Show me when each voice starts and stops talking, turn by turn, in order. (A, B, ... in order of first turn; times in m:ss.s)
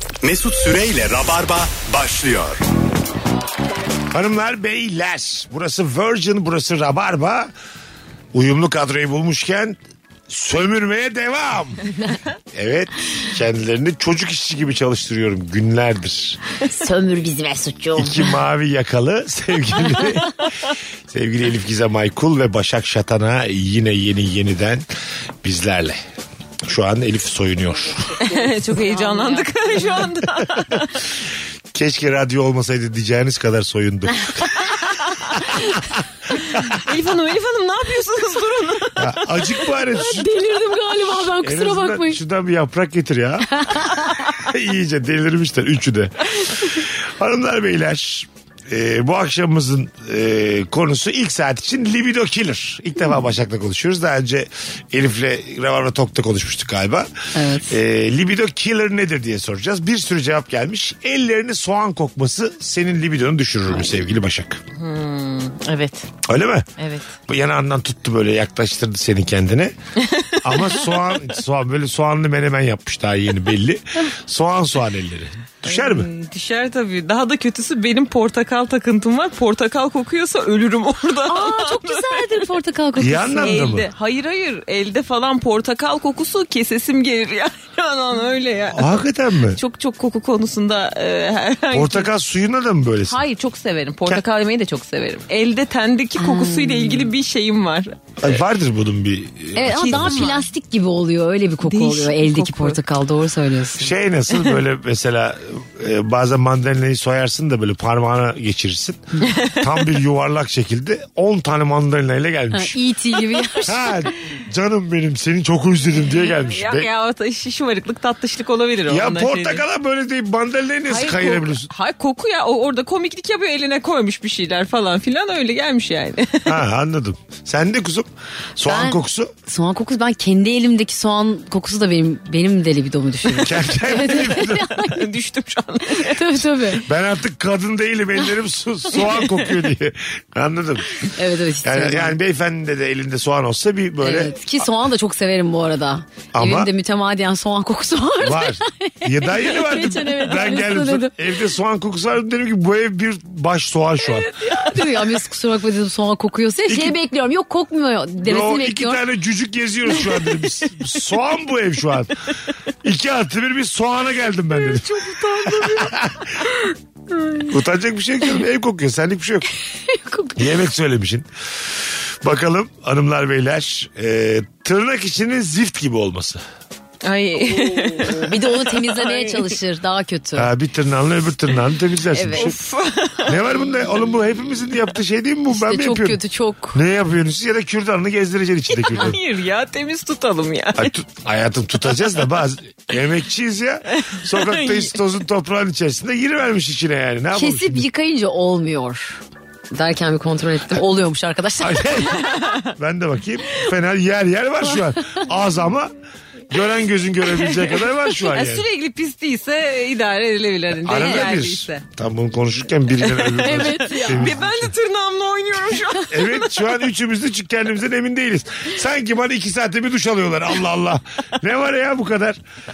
0:00.2-0:02.6 A
0:04.1-0:07.5 B
0:08.3-0:11.8 B
0:12.5-0:16.4 B
0:16.6-0:18.3 C
0:18.0-0:20.4 B
0:21.1-0:24.8 B
0:25.4-0:26.0 B
0:26.6-0:28.2 B
0:28.2-0:31.0 D
0:28.3-0:30.0 C
0:31.7-0:34.7 B
0:34.8-0:35.7 D
0:36.4-0:39.9 D
0:39.0-0:40.3 B
0:39.9-0:42.2 C
0:41.1-0:57.1 B
0:43.5-0:44.3 C
0:57.3-0:57.8 C
0:57.7-1:04.6 B
1:04.8-1:06.1 D
1:06.2-1:09.7 B
1:06.8-1:07.1 D
1:10.0-1:10.8 D
1:10.4-1:16.1 B
1:15.6-1:22.4 D
1:21.3-1:23.7 C
1:23.0-1:23.9 B
1:23.4-1:29.0 D
1:28.7-1:29.6 B
1:29.5-1:32.1 D
1:31.7-1:33.2 B
1:33.1-1:38.4 D
1:36.2-1:37.1 C
1:38.2-1:40.4 B
1:39.5-1:43.9 C
1:39.7-1:40.4 D
1:41.6-1:42.8 D
1:43.8-1:52.8 B
1:49.2-1:49.7 D
1:52.5-1:54.1 C
1:53.6-1:56.9 B
1:56.3-1:59.6 D
1:58.9-2:01.7 B
2:00.9-2:06.6 D
2:06.4-2:09.3 B
2:08.6-2:15.0 C
2:13.4-2:14.8 B
2:14.5-2:16.4 D
2:16.0-2:16.8 C
2:16.8-2:21.0 B
2:19.0-2:19.4 D
2:21.1-2:22.2 C
2:21.6-2:24.3 B
2:24.0-2:31.1 C
2:26.3-2:26.7 B
2:28.2-2:34.3 B
2:34.2-2:39.0 C
2:34.4-2:34.9 D
2:36.7-2:37.0 B
2:38.2-2:42.3 B
2:42.8-2:46.3 B
2:44.6-2:45.9 D
2:47.5-2:49.5 B
2:49.9-2:50.4 C
2:50.4-2:56.4 B
2:57.0-2:59.6 D
2:58.1-3:00.5 C
3:00.4-3:02.6 B
3:02.1-3:02.6 C
3:02.3-3:04.0 D
3:03.2-3:06.2 B
3:05.5-3:06.8 C
3:06.7-3:09.2 B
3:08.7-3:10.9 D
3:10.8-3:17.8 B
3:13.9-3:15.0 D
3:17.3-3:19.2 C
3:19.7-3:22.3 C
3:21.6-3:25.9 B
3:22.2-3:22.7 D
3:25.0-3:25.2 C
3:26.5-3:28.6 B
3:27.4-3:31.8 D
3:30.8-3:34.7 B
3:30.9-3:31.3 C
3:33.2-3:36.7 D
3:33.2-3:34.4 C
3:36.1-3:42.4 B